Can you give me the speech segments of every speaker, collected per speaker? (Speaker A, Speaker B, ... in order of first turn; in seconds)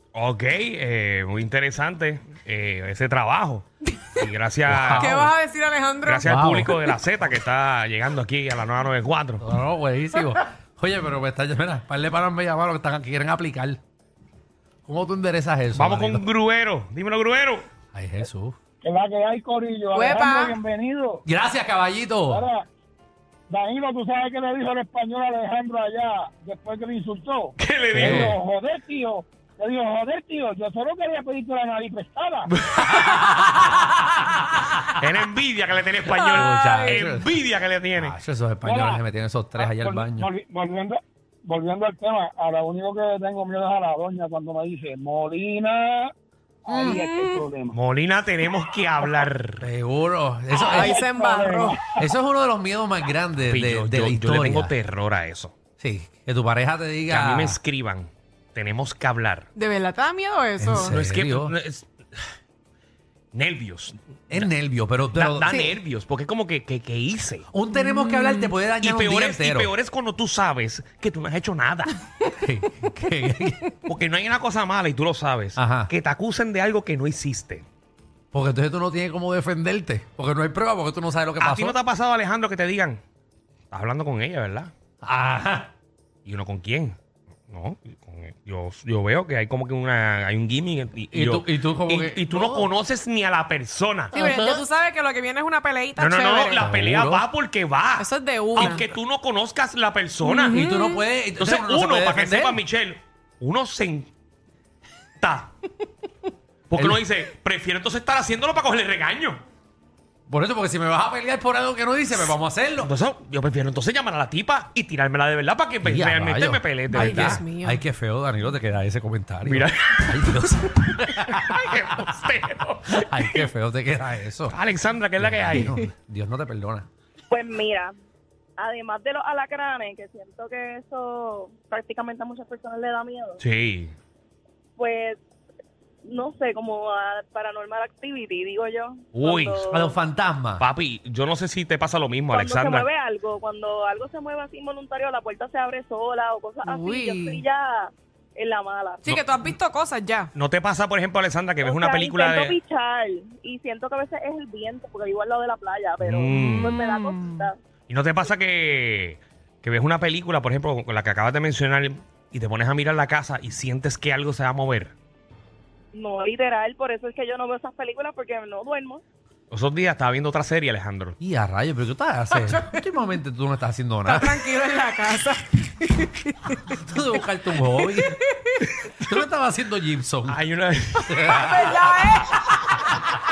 Speaker A: 0.1-5.3, 6.0-9.4, 15.8-17.7, 27.6-28.4, 32.6-33.4, 35.0-38.2, 47.7-49.7, 53.5-55.5, 57.1-59.5, 60.8-62.2, 63.3-64.5, 65.1-67.5, 68.8-72.0, 73.9-77.7, 81.4-83.0, 83.7-84.7, 86.3-87.0, 87.5-94.2, 96.0-100.6, 101.4-104.1, 105.2-105.5, 106.7-109.4, 112.8-117.4, 119.4-123.5, 124.5-125.7, 133.4-133.9, 139.1-139.7, 140.6-142.9, 149.1-149.3, 150.3-152.6, 156.0-156.8, 157.9-164.9, 169.5-171.2, 180.3-182.8
Speaker B: 4.7-5.3, 6.2-6.8, 9.4-13.8, 14.9-16.3, 17.9-18.6, 21.3-22.5, 27.9-28.4, 32.8-34.6, 36.1-37.3, 38.0-40.3, 46.7-47.0, 49.6-51.1, 51.9-54.7, 55.8-57.6, 60.6-61.5, 64.3-65.7, 67.5-69.7, 72.3-73.7, 75.6-75.9, 78.3-81.8, 85.0-85.7, 91.1-92.7, 94.1-94.7, 96.6-97.3, 100.4-102.6, 106.8-107.0, 110.3-112.9, 115.8-122.1, 122.9-124.6, 125.2-126.9, 139.7-140.7, 171.2-174.4, 176.7-178.2, 178.9-180.4, 181.1-181.8
Speaker C: 4.9-6.3, 19.9-20.6, 36.2-37.1, 46.9-47.4, 50.5-51.8, 59.6-61.0, 67.9-68.5, 94.1-96.7, 98.0-98.9, 100.2-101.0, 116.9-117.8, 146.6-147.4, 149.1-150.3, 156.3-157.5, 172.3-172.8, 174.1-176.8, 177.8-178.6, 181.4-182.4
Speaker D: 18.8-21.2, 22.3-22.6, 23.5-32.5, 38.6-39.0, 39.6-46.1, 46.7-47.8, 50.7-52.0
Speaker E: 127.3-127.9, 128.6-133.4, 134.8-135.2, 136.1-139.9, 142.3-149.1, 151.6-157.6, 165.9-169.0